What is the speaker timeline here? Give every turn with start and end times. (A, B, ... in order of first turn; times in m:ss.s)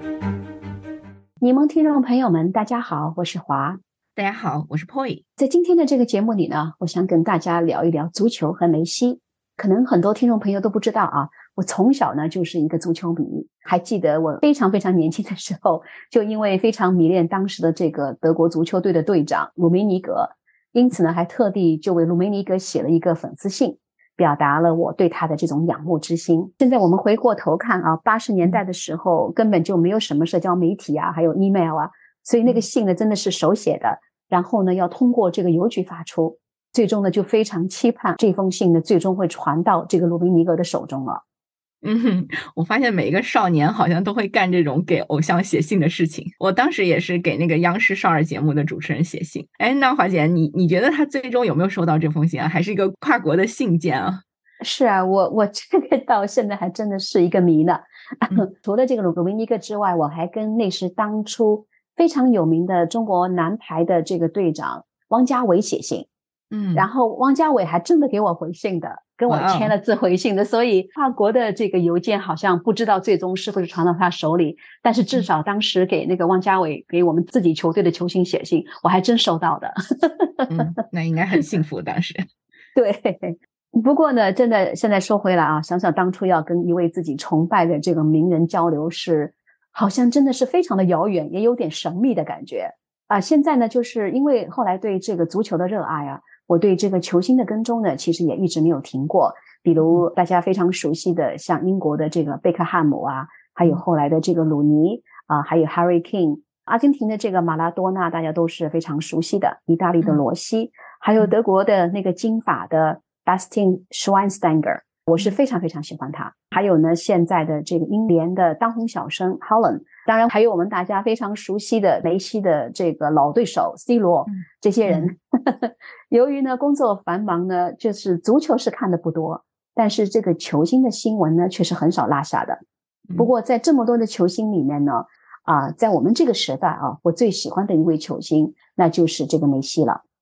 0:01.4-0:03.8 A
0:04.2-0:05.2 B
0:05.4-0:41.2 A
0:41.8-0:54.2 B
0:54.6-1:06.1 A
1:06.5-1:06.9 B
1:06.7-1:20.7 A
1:09.3-1:09.7 B
1:20.5-1:22.2 B
1:22.7-2:12.6 A
2:04.3-2:05.1 B
2:13.2-2:20.0 A